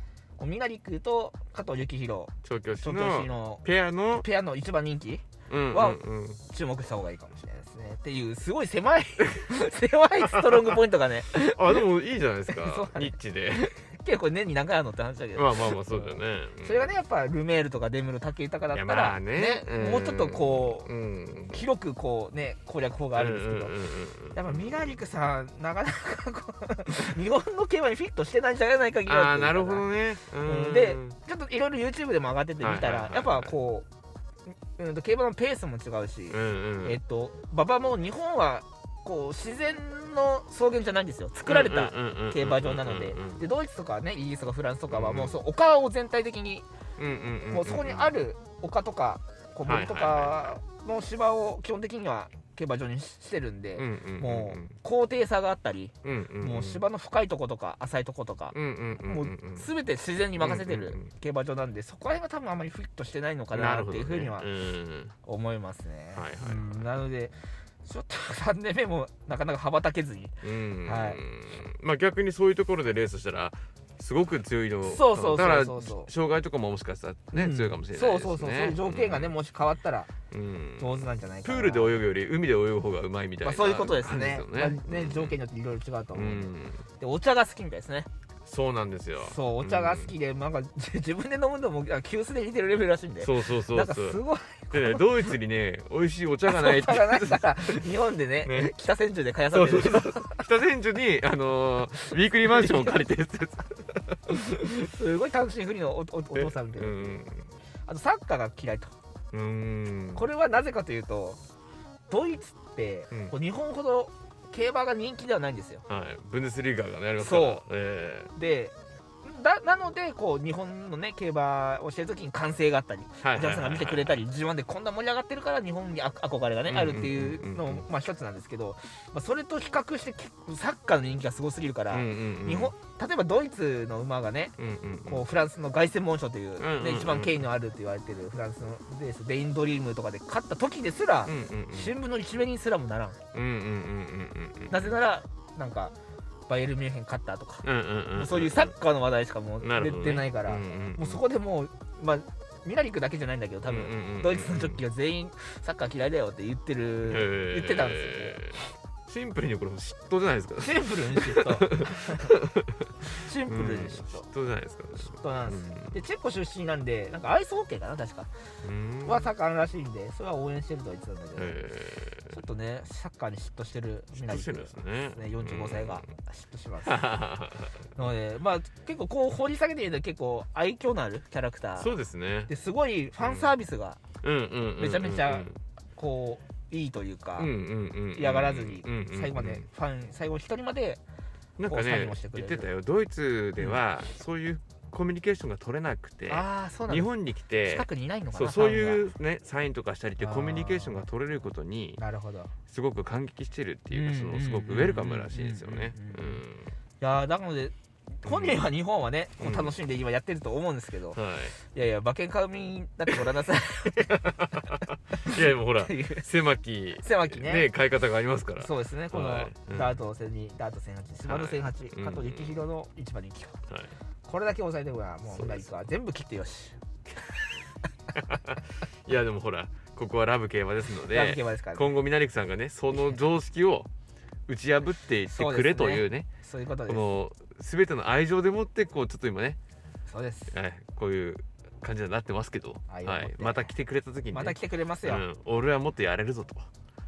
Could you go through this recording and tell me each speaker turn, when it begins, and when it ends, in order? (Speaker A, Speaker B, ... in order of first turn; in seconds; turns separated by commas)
Speaker A: 0.4-11.8, Speaker B: 2.4-4.2, Speaker B: 5.5-6.4, Speaker B: 10.3-10.8, Speaker B: 11.3-13.7, Speaker A: 12.5-20.9, Speaker B: 15.3-16.9, Speaker B: 18.7-21.6, Speaker A: 21.5-33.9, Speaker B: 23.1-25.0, Speaker B: 29.1-31.2, Speaker B: 32.6-33.5, Speaker A: 34.7-46.7, Speaker B: 36.3-37.0, Speaker B: 41.4-43.4, Speaker B: 44.9-45.3, Speaker B: 47.0-48.1, Speaker A: 47.5-64.5, Speaker B: 49.6-50.6, Speaker B: 53.8-54.8, Speaker B: 56.0-56.8, Speaker B: 58.5-59.7, Speaker B: 60.4-61.1, Speaker B: 63.5-65.1, Speaker A: 65.2-71.2, Speaker B: 66.1-66.9, Speaker B: 70.4-79.3, Speaker A: 74.8-76.1, Speaker A: 77.3-80.1, Speaker B: 80.3-85.4, Speaker A: 80.8-82.0, Speaker A: 83.4-88.1, Speaker B: 86.1-86.8, Speaker B: 88.5-90.1, Speaker A: 89.2-95.4, Speaker B: 93.2-94.2, Speaker B: 94.7-97.9, Speaker A: 96.5-100.4, Speaker B: 98.4-98.7, Speaker B: 99.5-104.4, Speaker A: 102.5-103.0, Speaker A: 104.3-107.2, Speaker B: 106.3-107.5, Speaker A: 107.8-108.9, Speaker B: 109.3-110.2, Speaker A: 110.1-111.4, Speaker A: 112.1-115.8, Speaker B: 115.9-118.3, Speaker A: 117.2-117.6, Speaker A: 118.3-134.5, Speaker B: 123.2-124.2, Speaker B: 126.7-127.8, Speaker B: 131.9-132.7, Speaker B: 134.6-135.2, Speaker A: 135.1-143.2, Speaker B: 136.6-137.4, Speaker B: 141.2-141.9, Speaker B: 143.3-144.9, Speaker A: 144.7-145.9, Speaker A: 146.5-158.6, Speaker B: 147.6-148.7, Speaker B: 149.6-151.2, Speaker B: 153.7-154.8, Speaker B: 157.1-166.0, Speaker A: 160.6-162.3, Speaker A: 163.1-164.3, Speaker A: 165.0-168.3, Speaker B: 168.6-169.3, Speaker A: 169.0-171.6, Speaker B: 171.3-172.4, Speaker A: 172.3-177.1, Speaker B: 174.1-176.1, Speaker B: 176.8-177.8, Speaker A: 177.9-181.9, Speaker B: 181.8-182.5, Speaker A: 182.5-184.0, Speaker B: 183.2-183.5, Speaker B: 184.2-185.6, Speaker A: 184.8-187.5, Speaker B: 187.4-189.6, Speaker A: 188.1-191.0, Speaker B: 191.6-202.0, Speaker A: 191.7-192.7, Speaker A: 196.3-197.1, Speaker A: 197.6-199.1, Speaker A: 200.2-201.1, Speaker A: 202.0-202.5, Speaker B: 202.7-206.7, Speaker A: 203.9-206.4, Speaker A: 207.0-216.2, Speaker B: 208.2-208.7, Speaker B: 209.4-209.7, Speaker B: 211.1-211.5, Speaker B: 214.0-220.0, Speaker A: 217.0-217.7, Speaker A: 218.6-223.6, Speaker B: 221.3-222.6, Speaker B: 223.7-223.9, Speaker A: 224.2-227.4, Speaker B: 225.3-225.6, Speaker B: 228.1-233.9, Speaker A: 231.1-231.9, Speaker B: 234.5-236.3, Speaker A: 235.3-237.1, Speaker B: 236.9-239.6, Speaker A: 240.1-240.5, Speaker B: 240.5-246.7, Speaker A: 242.9-243.7, Speaker A: 244.3-245.2